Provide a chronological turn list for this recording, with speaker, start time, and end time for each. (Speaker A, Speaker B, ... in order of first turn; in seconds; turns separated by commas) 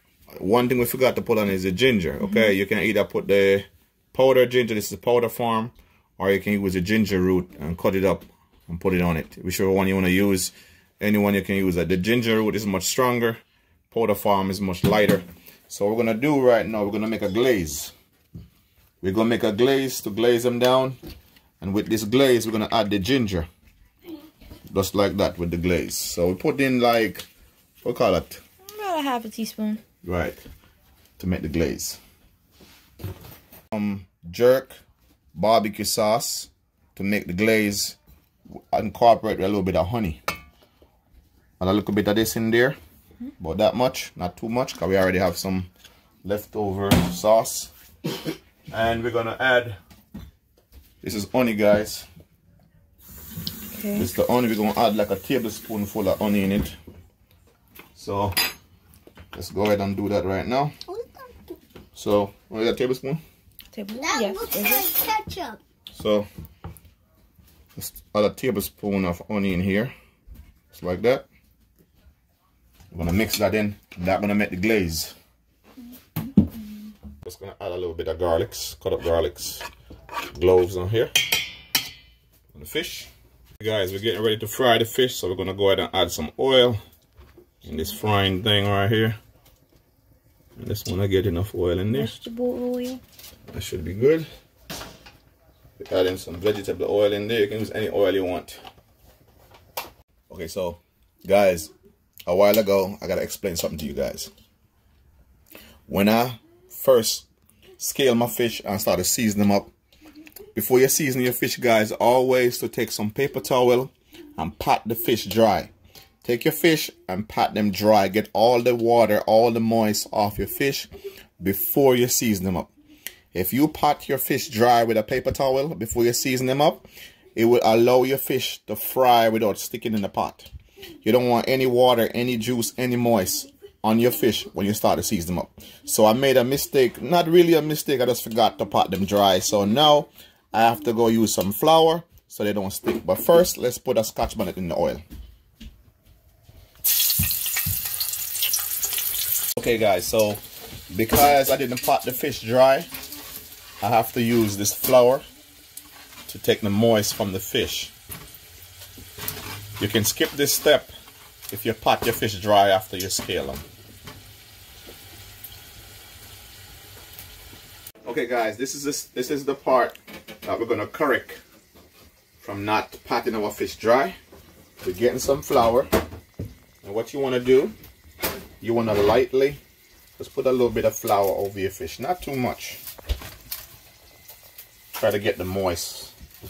Speaker A: 0.3-13.4, Speaker B: 2.2-2.5, Speaker A: 13.9-17.9, Speaker A: 19.0-21.0, Speaker A: 21.6-23.5, Speaker A: 24.7-27.2, Speaker A: 27.8-28.4, Speaker B: 28.7-29.8, Speaker A: 30.0-30.4, Speaker A: 31.2-32.0, Speaker A: 33.7-34.8, Speaker A: 35.3-38.0, Speaker A: 38.5-40.2, Speaker A: 41.6-42.8, Speaker A: 43.4-45.7, Speaker A: 46.2-47.7, Speaker A: 48.7-49.8, Speaker A: 51.0-52.1, Speaker B: 53.7-54.1, Speaker A: 53.9-56.8, Speaker A: 58.0-58.4, Speaker A: 59.3-60.7, Speaker C: 60.9-61.4, Speaker A: 61.9-63.2, Speaker B: 63.7-64.9, Speaker C: 64.0-65.6, Speaker A: 65.9-66.3, Speaker A: 67.8-69.9, Speaker A: 70.7-71.2, Speaker A: 72.9-75.1, Speaker A: 77.2-79.6, Speaker A: 80.3-81.1, Speaker A: 82.5-86.8, Speaker A: 87.6-89.2, Speaker A: 90.6-92.1, Speaker B: 91.9-93.0, Speaker A: 93.5-94.3, Speaker A: 95.8-98.6, Speaker A: 100.3-101.7, Speaker A: 102.2-104.3, Speaker A: 105.9-107.3, Speaker A: 107.8-109.7, Speaker A: 110.5-115.7, Speaker A: 116.2-122.7, Speaker A: 123.3-130.5, Speaker A: 131.0-145.0, Speaker A: 149.6-152.9, Speaker A: 153.8-155.2, Speaker A: 156.3-157.9, Speaker A: 159.8-160.9, Speaker A: 161.5-163.6, Speaker A: 168.0-171.4, Speaker A: 172.4-174.2, Speaker A: 174.8-175.9, Speaker A: 176.8-177.8, Speaker A: 178.6-179.6, Speaker A: 180.2-182.8, Speaker A: 184.9-186.1